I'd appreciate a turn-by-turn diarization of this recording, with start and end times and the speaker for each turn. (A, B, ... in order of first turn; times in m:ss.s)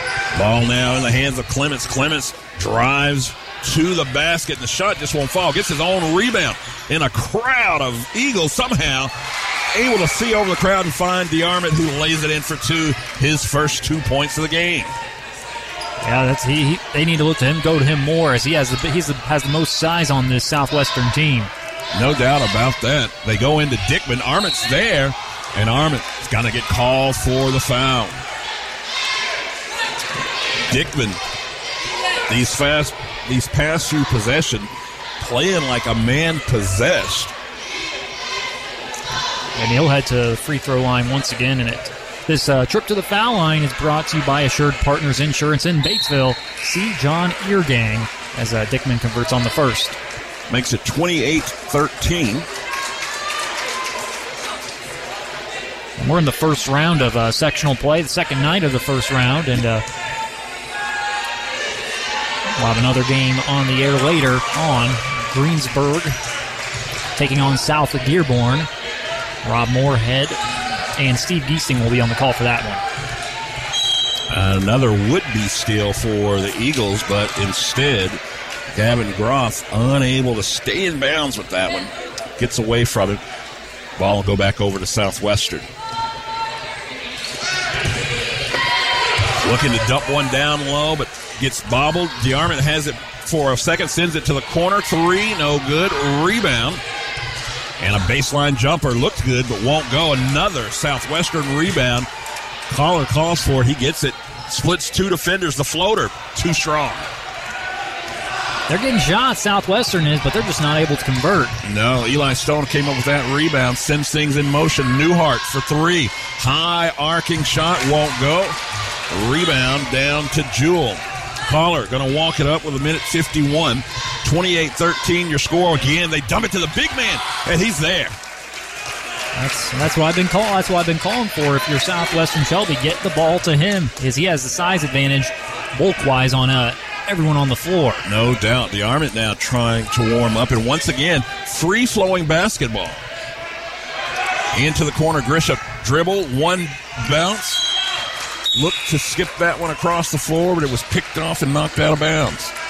0:00.3-0:09.1 A
0:09.7-0:15.0 A
0:16.0-0:21.5 B
0:21.9-0:28.2 A
0:30.7-0:31.2 A
0:32.3-0:37.3 A
0:39.6-0:50.0 B
0:50.5-0:52.5 A
0:56.0-0:59.8 B
1:02.6-1:06.2 B
1:07.2-1:08.7 B
1:09.4-1:10.4 B
1:11.0-1:12.8 B
1:14.3-1:18.2 A
1:18.7-1:23.2 A
1:24.0-1:25.7 A
1:29.4-1:36.8 A
1:37.8-1:42.1 A
1:42.7-1:47.1 A
1:48.7-1:51.6 B
1:51.6-1:58.6 A
1:59.1-2:08.2 A
2:09.4-2:18.0 B
2:18.0-2:23.0 A
2:24.5-2:27.7 A
2:28.6-2:32.5 A